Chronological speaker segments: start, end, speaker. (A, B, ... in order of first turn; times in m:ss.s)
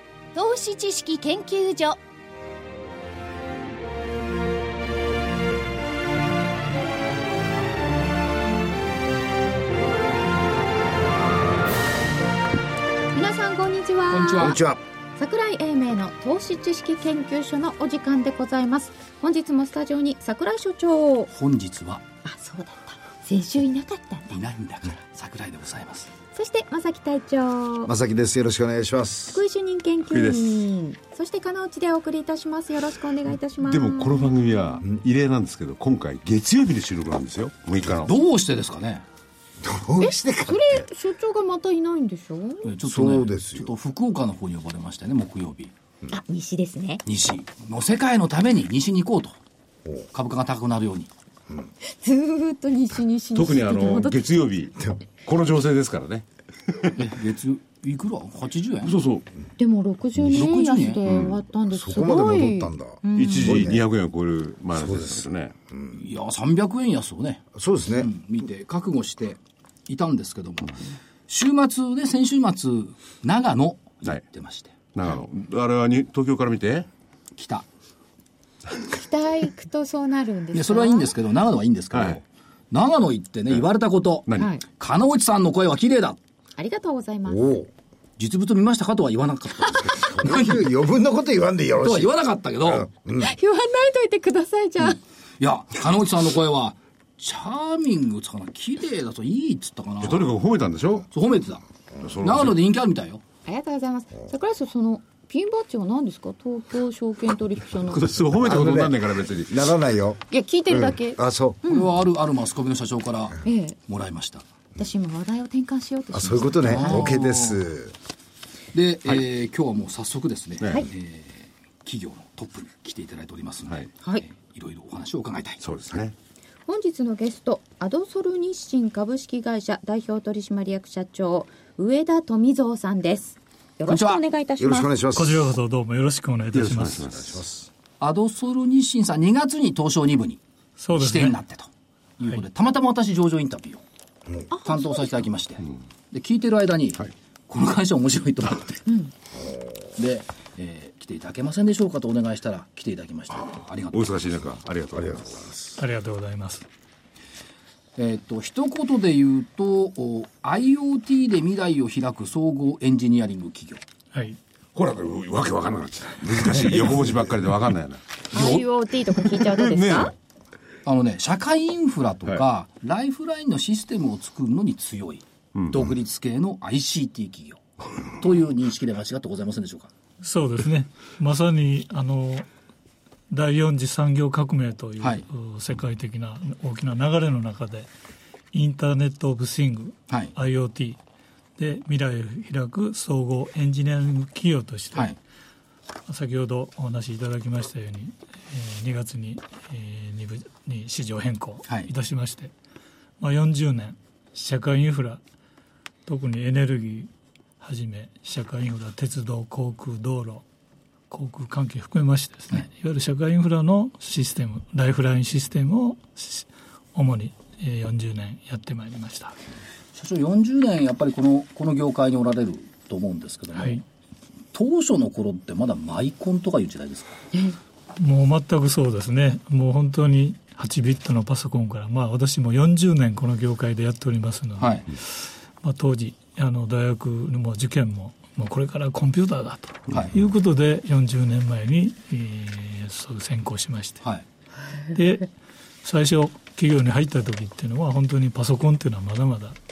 0:00.3-0:02.0 A
0:13.1-0:14.6 A
0:14.1-0:14.6 B
0:14.4-0:14.8 C
0:15.2-0:21.3 A
0:21.3-0:22.0 B
0:22.2-0:24.4 A
0:24.3-0:26.1 B
0:26.3-0:27.9 A
0:27.8-0:29.4 C
0:29.3-0:34.3 A
0:30.1-0:30.6 D
0:33.6-0:38.1 D
0:38.0-0:39.0 B
0:39.6-0:40.8 C
0:40.0-0:42.7 A
0:42.6-0:45.7 B
0:42.8-0:43.7 C
0:46.1-0:47.0 A
0:47.0-0:49.4 B
0:50.1-0:51.1 B
0:52.0-0:54.2 A
0:53.3-0:57.0 D
0:57.0-0:59.0 B
0:58.8-0:59.3 D
0:59.6-1:03.6 A
1:00.3-1:01.0 B
1:01.0-1:01.4 D
1:01.7-1:03.8 C
1:03.1-1:05.5 D
1:04.7-1:05.9 C
1:05.9-1:07.4 B
1:07.5-1:08.1 C
1:08.0-1:14.7 B
1:14.9-1:16.9 D
1:17.4-1:17.6 B
1:18.8-1:21.1 A
1:20.5-1:26.2 B
1:21.9-1:22.2 D
1:24.3-1:24.6 A
1:26.6-1:27.6 A
1:27.3-1:27.7 C
1:28.2-1:30.6 B
1:30.0-1:32.1 C
1:31.8-1:32.9 B
1:32.6-1:33.3 C
1:33.2-1:35.0 A
1:35.4-1:40.3 B
1:40.0-1:41.1 D
1:41.1-1:41.6 B
1:42.0-1:42.6 D
1:42.2-1:43.2 B
1:43.4-1:48.1 A
1:47.8-1:49.7 D
1:48.3-1:51.6 C
1:50.3-1:51.9 A
1:51.7-1:54.4 B
1:53.4-1:53.8 A
1:54.8-1:57.1 A
1:56.1-1:57.9 C
1:56.6-1:57.6 B
1:58.7-2:05.6 B
2:05.6-2:06.1 D
2:06.7-2:14.9 A
2:13.9-2:14.2 B
2:14.6-2:15.4 C
2:15.1-2:17.3 E
2:16.5-2:17.4 D
2:17.3-2:17.7 C
2:18.0-2:20.4 B
2:20.8-2:21.4 E
2:20.9-2:23.8 B
2:24.5-2:25.1 A
2:24.6-2:28.8 B
2:30.0-2:34.2 B
2:33.9-2:35.5 D
2:35.8-2:36.6 E
2:38.0-2:43.8 B
2:44.7-2:48.6 D
2:48.3-2:50.1 A
2:48.4-2:48.6 B
2:49.5-2:50.1 D
2:50.8-2:59.9 B
2:55.5-2:55.8 D
3:00.2-3:02.4 E
3:03.3-3:07.9 E
3:08.5-3:11.0 E
3:11.6-3:15.1 E
3:16.0-3:22.5 E
3:23.2-3:25.2 E
3:26.0-3:27.1 E
3:27.6-3:30.4 E
3:31.1-3:39.4 E
3:39.9-3:43.8 B
3:43.5-3:43.8 E
3:44.5-3:47.1 B
3:48.0-3:55.1 E
3:54.6-3:54.8 B
3:55.6-4:04.0 E
4:04.9-4:05.3 E
4:05.8-4:09.6 E